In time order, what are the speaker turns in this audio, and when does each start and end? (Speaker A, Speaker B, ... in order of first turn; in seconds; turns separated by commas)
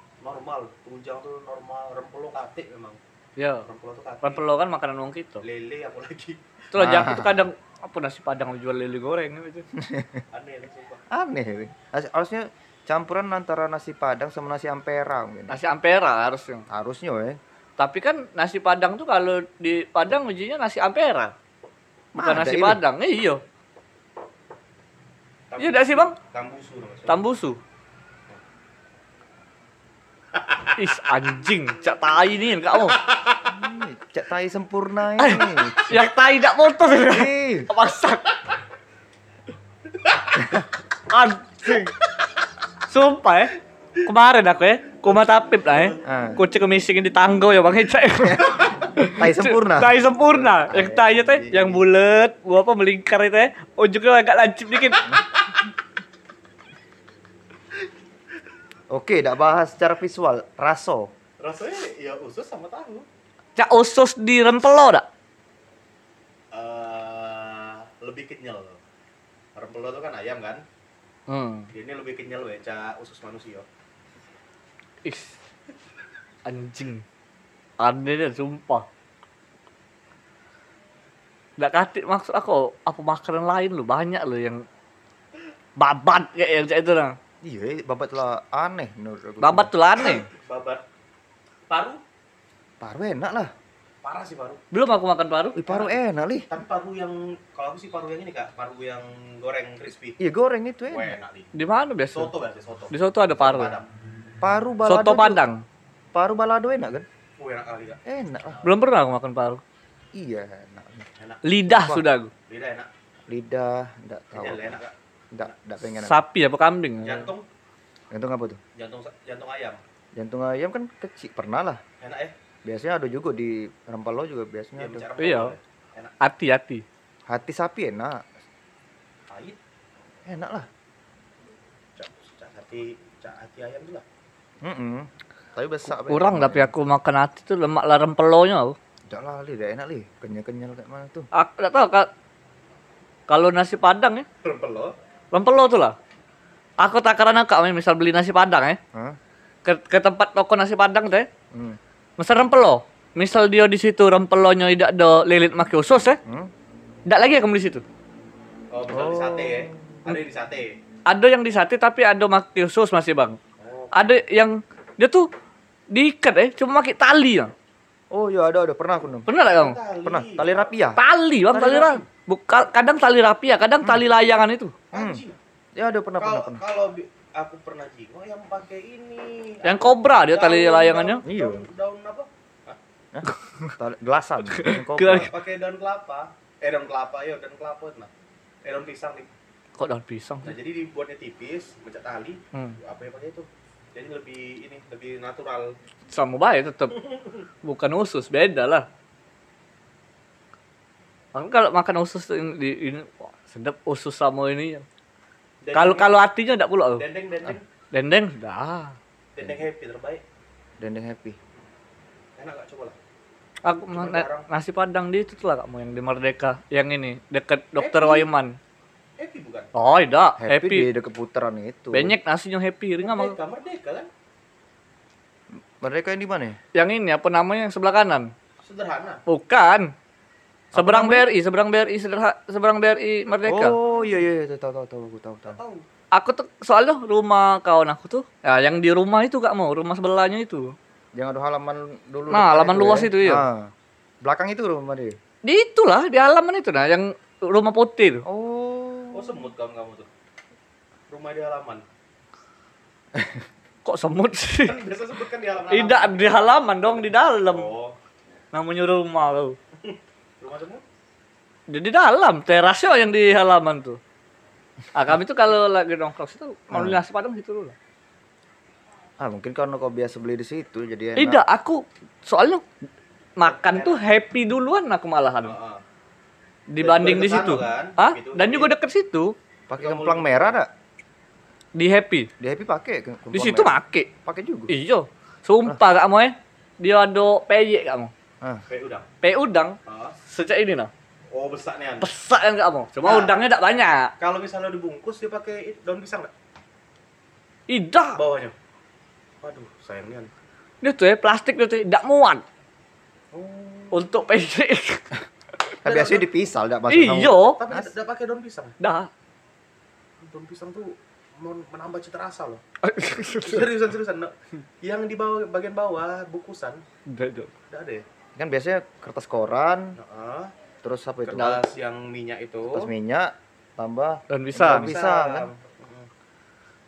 Speaker A: 0.2-3.0, Speaker B: 3.4-3.7, Speaker A: 3.6-4.4, Speaker B: 4.2-5.4, Speaker A: 5.4-6.4, Speaker B: 6.7-9.7, Speaker C: 6.8-7.4, Speaker C: 9.7-10.2, Speaker A: 10.3-11.0, Speaker C: 11.1-15.6, Speaker B: 15.5-16.7, Speaker C: 16.7-17.4, Speaker B: 17.8-21.3, Speaker C: 22.1-22.8, Speaker B: 22.2-23.4, Speaker A: 25.5-27.2, Speaker B: 25.6-26.1, Speaker B: 27.1-27.6, Speaker A: 30.3-30.8, Speaker B: 30.8-33.0, Speaker A: 33.0-33.5, Speaker C: 33.5-36.1, Speaker B: 35.2-38.3, Speaker C: 36.9-37.7, Speaker A: 39.9-40.6, Speaker B: 40.9-42.0, Speaker A: 41.7-42.2, Speaker B: 42.8-55.2, Speaker A: 45.7-46.2, Speaker C: 46.0-46.4, Speaker C: 48.2-51.8, Speaker A: 48.4-48.9, Speaker C: 58.9-61.1, Speaker A: 61.4-63.0, Speaker B: 63.5-65.0, Speaker A: 66.5-68.8, Speaker A: 69.5-70.6, Speaker B: 71.3-71.7, Speaker A: 71.7-73.7, Speaker B: 75.0-75.3, Speaker B: 76.5-77.0, Speaker B: 77.8-78.8, Speaker B: 81.6-84.6, Speaker B: 85.8-87.2, Speaker C: 87.4-89.7, Speaker B: 89.4-90.3, Speaker A: 90.0-90.8, Speaker A: 91.7-92.0, Speaker C: 92.8-93.5, Speaker A: 94.0-94.6, Speaker B: 94.7-95.6, Speaker C: 95.5-96.5, Speaker A: 96.5-100.2, Speaker C: 100.2-101.1, Speaker A: 100.9-101.6, Speaker B: 101.5-102.3, Speaker A: 102.1-103.8, Speaker B: 102.9-103.7, Speaker C: 104.4-105.4, Speaker B: 104.8-105.6, Speaker C: 106.1-107.0, Speaker A: 107.4-108.7, Speaker C: 108.0-108.6, Speaker B: 108.6-109.6, Speaker C: 110.1-111.1, Speaker A: 111.2-111.4, Speaker B: 111.4-112.3, Speaker C: 111.7-112.0, Speaker A: 112.5-112.9, Speaker C: 113.3-114.8, Speaker A: 114.3-115.5, Speaker C: 115.3-116.2, Speaker B: 115.9-117.3, Speaker A: 117.0-117.4, Speaker C: 118.1-118.6, Speaker A: 118.8-119.8, Speaker C: 120.2-121.8, Speaker A: 122.0-122.3, Speaker C: 122.6-125.0, Speaker A: 124.8-126.1, Speaker B: 125.2-125.5, Speaker B: 126.2-126.8, Speaker C: 127.3-128.2, Speaker A: 129.3-129.6, Speaker C: 130.3-130.7, Speaker A: 132.0-134.0, Speaker C: 134.6-136.7, Speaker B: 135.9-138.8, Speaker C: 139.1-141.3, Speaker B: 141.3-142.1, Speaker B: 143.3-144.3, Speaker A: 144.4-144.9, Speaker B: 145.3-145.9, Speaker B: 146.8-148.8, Speaker B: 149.6-151.3, Speaker C: 151.5-151.8, Speaker B: 152.2-156.2, Speaker C: 156.2-156.5, Speaker B: 157.1-157.8, Speaker A: 158.7-160.7, Speaker C: 158.9-160.0, Speaker B: 161.1-163.4, Speaker A: 163.6-164.2, Speaker B: 163.9-165.3, Speaker B: 165.9-167.5, Speaker C: 168.1-169.3, Speaker B: 169.3-169.8, Speaker A: 169.5-170.7, Speaker C: 170.0-171.0, Speaker B: 170.9-174.8, Speaker A: 171.5-172.1, Speaker A: 174.9-175.4, Speaker C: 174.9-175.2, Speaker C: 175.7-176.6, Speaker A: 176.2-182.8, Speaker B: 179.6-181.2, Speaker C: 181.2-181.7, Speaker C: 183.1-185.3, Speaker B: 183.2-183.7, Speaker B: 184.5-185.3, Speaker A: 185.2-188.1, Speaker A: 188.6-189.3, Speaker B: 189.8-190.5, Speaker A: 190.4-195.7, Speaker B: 192.5-192.8, Speaker B: 196.1-197.0, Speaker A: 197.0-197.4, Speaker B: 197.6-198.8, Speaker B: 201.3-204.8, Speaker A: 205.6-206.1, Speaker B: 205.7-207.0, Speaker A: 206.9-207.6, Speaker B: 207.9-209.0, Speaker A: 209.3-210.2, Speaker C: 210.8-211.4, Speaker A: 212.4-213.0, Speaker B: 213.6-218.6, Speaker A: 213.9-214.5, Speaker A: 217.8-218.3, Speaker A: 219.2-219.7, Speaker B: 219.7-220.9, Speaker C: 220.4-222.2, Speaker B: 221.9-223.4, Speaker A: 223.0-224.1, Speaker C: 225.8-226.6, Speaker B: 226.7-228.3, Speaker A: 228.6-229.2, Speaker B: 229.3-229.9, Speaker C: 230.7-231.3, Speaker B: 230.7-233.8, Speaker C: 233.5-235.6, Speaker A: 235.5-235.8, Speaker B: 236.1-240.7, Speaker C: 241.2-243.7, Speaker B: 242.3-243.4, Speaker C: 244.2-245.2, Speaker B: 245.4-248.2, Speaker C: 248.2-249.4, Speaker A: 249.1-250.1, Speaker A: 251.1-251.8, Speaker C: 253.1-253.4, Speaker B: 253.8-254.8, Speaker A: 254.6-258.0, Speaker B: 255.7-257.7, Speaker B: 258.5-259.6, Speaker A: 259.8-260.8, Speaker B: 261.7-264.0, Speaker B: 264.9-267.8, Speaker C: 266.7-267.0, Speaker C: 269.2-271.4, Speaker B: 271.2-272.6, Speaker B: 273.4-275.6, Speaker A: 273.4-274.0, Speaker A: 275.4-275.8, Speaker B: 276.7-279.3, Speaker A: 276.8-278.7, Speaker C: 279.7-280.7, Speaker A: 279.7-280.6, Speaker B: 281.8-282.3, Speaker C: 282.4-284.7, Speaker B: 283.3-284.1, Speaker B: 284.7-288.1, Speaker A: 288.7-289.1, Speaker B: 289.2-290.9, Speaker A: 289.8-290.1, Speaker A: 291.3-292.1, Speaker B: 292.0-294.1, Speaker A: 293.0-293.3, Speaker A: 294.2-296.3, Speaker B: 297.7-298.2, Speaker A: 298.1-298.5, Speaker A: 299.4-300.3, Speaker B: 300.8-302.4, Speaker A: 303.3-304.1, Speaker B: 303.9-305.1, Speaker A: 305.8-306.3, Speaker C: 305.8-307.9, Speaker B: 306.9-307.6, Speaker A: 307.5-308.8, Speaker B: 308.8-309.1, Speaker A: 310.2-312.6, Speaker B: 312.8-313.7, Speaker A: 313.2-316.8, Speaker B: 317.1-317.5, Speaker A: 317.7-318.0, Speaker C: 318.4-319.9, Speaker A: 320.0-320.5, Speaker C: 320.8-321.6, Speaker A: 321.2-322.9, Speaker C: 322.7-325.5, Speaker B: 324.3-324.9, Speaker A: 324.7-326.1